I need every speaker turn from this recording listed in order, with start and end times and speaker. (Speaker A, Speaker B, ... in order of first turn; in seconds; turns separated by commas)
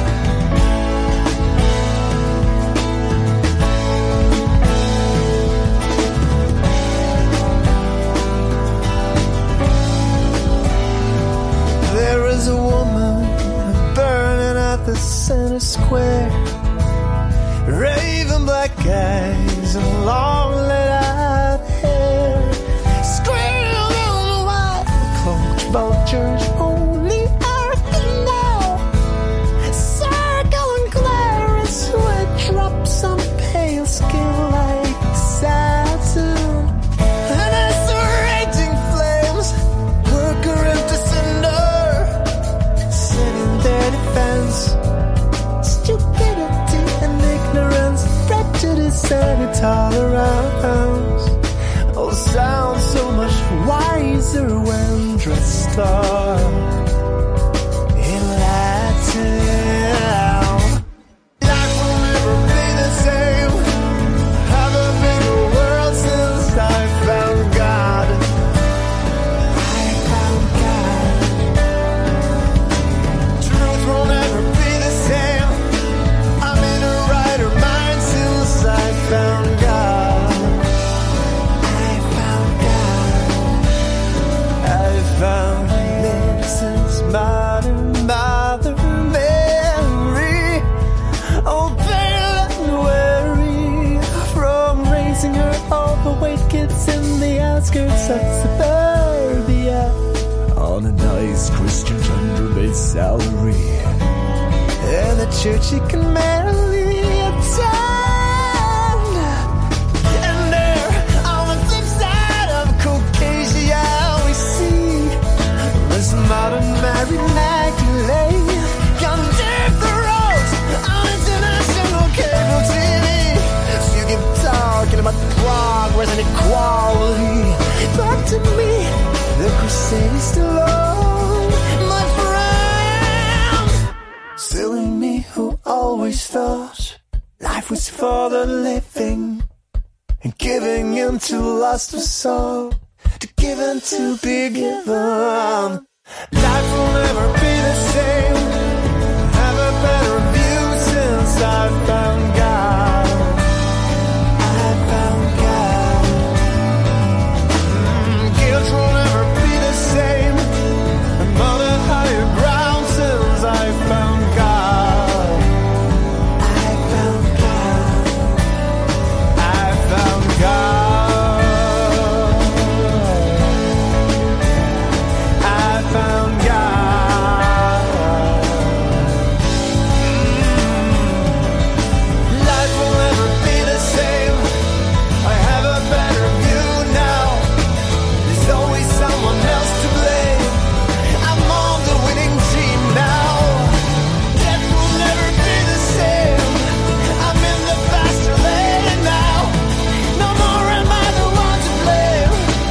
Speaker A: 11.8-16.4, Speaker A: 17.6-28.8, Speaker A: 29.7-39.5, Speaker A: 40.0-42.2, Speaker A: 42.9-44.8, Speaker A: 45.6-51.4, Speaker A: 51.9-56.8, Speaker A: 57.9-60.8, Speaker A: 61.4-68.2, Speaker A: 69.5-71.5, Speaker A: 73.4-75.6, Speaker A: 76.4-80.6, Speaker A: 81.6-83.6, Speaker A: 84.6-90.7, Speaker A: 91.4-100.0, Speaker A: 100.5-103.9, Speaker A: 104.8-109.5, Speaker A: 110.1-115.1, Speaker A: 115.7-133.7, Speaker A: 134.4-139.4, Speaker A: 140.2-148.6, Speaker A: 149.2-153.4, Speaker A: 154.4-156.4, Speaker A: 157.6-160.4, Speaker A: 161.2-165.5, Speaker A: 166.4-168.4, Speaker A: 169.3-173.5, Speaker A: 175.4-179.2, Speaker A: 180.0-181.5, Speaker A: 182.2-184.5, Speaker A: 185.2-187.5, Speaker A: 188.2-202.5